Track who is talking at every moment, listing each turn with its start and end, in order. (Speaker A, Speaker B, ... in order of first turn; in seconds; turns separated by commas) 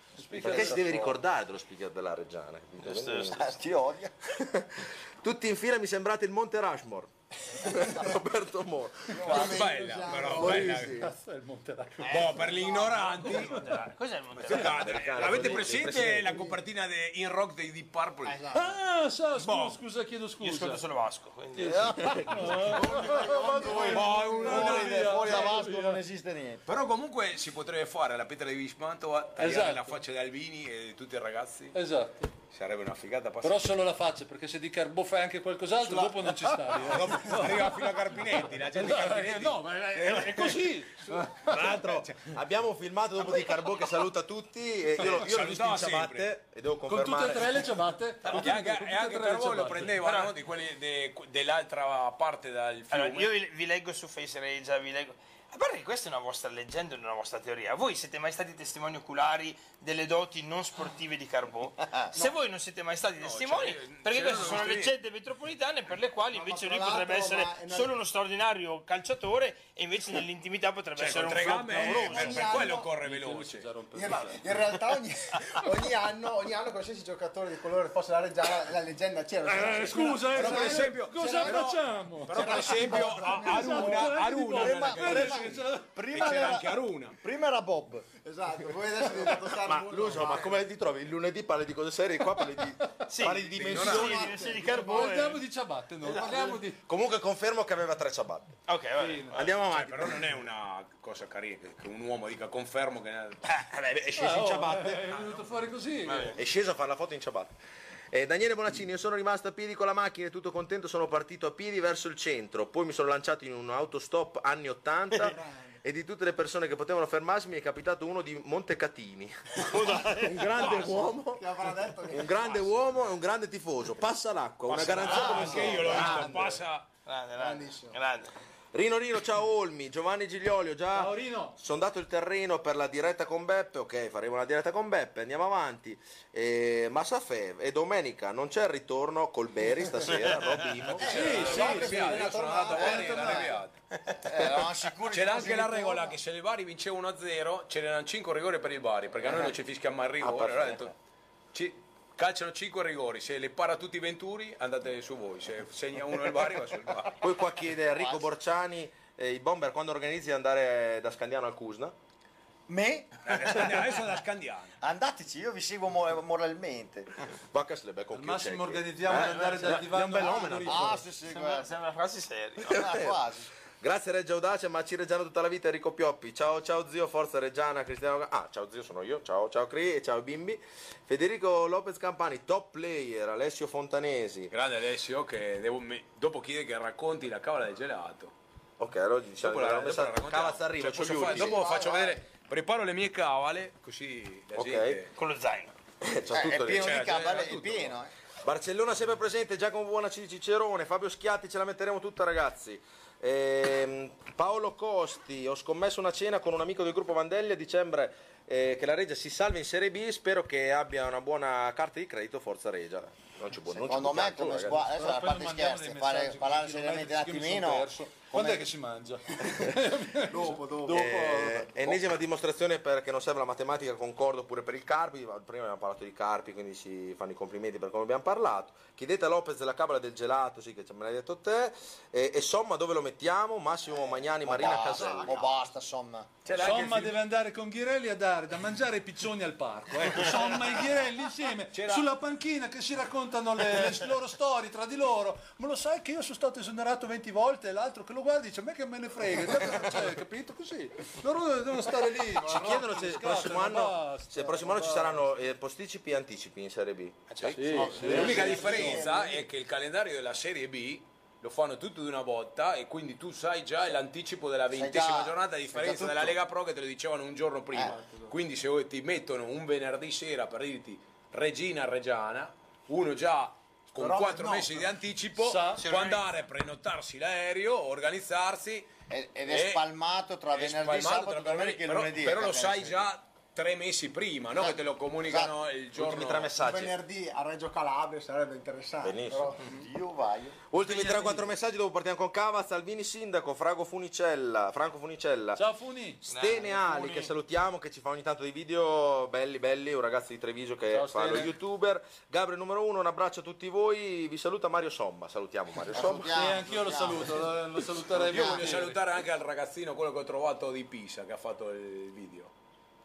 Speaker A: 0.2-1.2, Speaker B: 0.3-3.5, Speaker C: 0.4-0.9, Speaker D: 2.8-3.4, Speaker C: 3.3-4.1, Speaker B: 4.4-9.5, Speaker E: 9.1-10.9, Speaker F: 9.2-11.1, Speaker A: 10.1-12.3, Speaker F: 12.0-13.6, Speaker D: 12.2-15.7, Speaker F: 14.4-18.5, Speaker B: 14.6-16.5, Speaker A: 18.5-20.8, Speaker D: 19.4-19.8, Speaker D: 20.4-22.4, Speaker A: 21.6-26.0, Speaker C: 21.6-26.6, Speaker B: 21.7-22.7, Speaker E: 22.8-24.5, Speaker F: 23.9-25.5, Speaker F: 26.7-31.8, Speaker A: 29.4-30.0, Speaker A: 31.7-32.3, Speaker F: 32.5-33.8, Speaker A: 33.4-37.8, Speaker F: 35.9-36.1, Speaker F: 36.8-42.4, Speaker A: 38.4-41.9, Speaker B: 41.4-47.7, Speaker F: 45.0-46.3, Speaker A: 46.9-50.0, Speaker F: 48.3-53.3, Speaker D: 50.0-50.3, Speaker D: 52.9-72.5, Speaker F: 63.2-65.0, Speaker E: 66.3-67.9, Speaker F: 71.0-73.7, Speaker E: 71.3-72.9, Speaker A: 72.5-74.8, Speaker E: 73.9-84.1, Speaker A: 79.5-85.9, Speaker F: 80.3-87.2, Speaker C: 84.5-88.1, Speaker E: 88.2-90.6, Speaker B: 89.5-94.3, Speaker D: 93.1-95.4, Speaker F: 93.5-94.3, Speaker E: 93.6-95.1, Speaker A: 94.6-96.8, Speaker E: 96.1-96.6, Speaker B: 96.1-98.5, Speaker D: 98.7-99.4, Speaker A: 99.0-99.4, Speaker B: 99.3-100.3, Speaker F: 99.4-103.4, Speaker D: 103.4-104.1, Speaker B: 103.9-105.2, Speaker A: 104.2-106.3, Speaker D: 106.1-106.4, Speaker B: 106.3-107.5, Speaker B: 108.1-126.2, Speaker E: 115.2-115.8, Speaker D: 119.6-120.8, Speaker E: 120.6-122.9, Speaker F: 124.7-126.9, Speaker E: 124.8-126.6, Speaker D: 127.1-128.3, Speaker E: 127.4-128.0, Speaker B: 128.7-141.7, Speaker A: 130.9-131.6, Speaker D: 140.1-140.7, Speaker E: 141.0-143.5, Speaker A: 141.0-143.5, Speaker F: 141.1-143.8, Speaker C: 142.4-143.5, Speaker C: 144.2-146.2, Speaker F: 145.1-150.9, Speaker B: 150.2-150.9, Speaker F: 151.5-157.3, Speaker B: 157.2-161.9, Speaker C: 157.9-158.3, Speaker C: 162.7-163.7, Speaker F: 163.2-164.8, Speaker C: 164.8-167.1, Speaker B: 167.5-171.0, Speaker A: 168.1-171.1, Speaker D: 169.1-169.8, Speaker C: 170.4-171.7, Speaker D: 171.3-172.9, Speaker C: 172.7-173.5, Speaker B: 172.7-173.1, Speaker B: 173.8-184.5, Speaker F: 184.5-188.3, Speaker B: 188.8-191.7, Speaker F: 189.4-195.2, Speaker E: 191.2-192.2, Speaker B: 194.6-195.0, Speaker D: 195.2-195.7, Speaker B: 196.0-197.0, Speaker C: 196.3-198.1, Speaker F: 196.7-197.9, Speaker B: 198.4-214.9, Speaker C: 213.7-218.7, Speaker A: 214.8-222.0, Speaker E: 220.3-221.0, Speaker B: 220.8-235.6, Speaker C: 234.3-236.3, Speaker F: 236.4-237.2, Speaker A: 236.6-255.3, Speaker F: 241.7-242.1, Speaker B: 252.4-257.5, Speaker F: 257.3-278.9, Speaker A: 257.4-259.0, Speaker E: 257.7-259.4, Speaker C: 258.0-258.5, Speaker C: 264.7-266.4, Speaker E: 268.0-268.3, Speaker E: 274.0-274.8, Speaker A: 275.4-275.9, Speaker D: 275.8-276.3, Speaker C: 279.1-283.1, Speaker F: 279.5-279.9, Speaker F: 280.5-286.6, Speaker C: 284.6-285.5, Speaker B: 285.9-287.0, Speaker E: 286.5-289.9, Speaker B: 289.0-289.6, Speaker C: 289.7-290.6, Speaker B: 290.7-295.6, Speaker F: 290.9-291.4, Speaker A: 295.6-296.2, Speaker B: 296.2-306.4, Speaker D: 296.3-297.3, Speaker A: 300.9-301.5, Speaker C: 305.9-308.8, Speaker A: 306.3-309.0, Speaker F: 308.2-312.5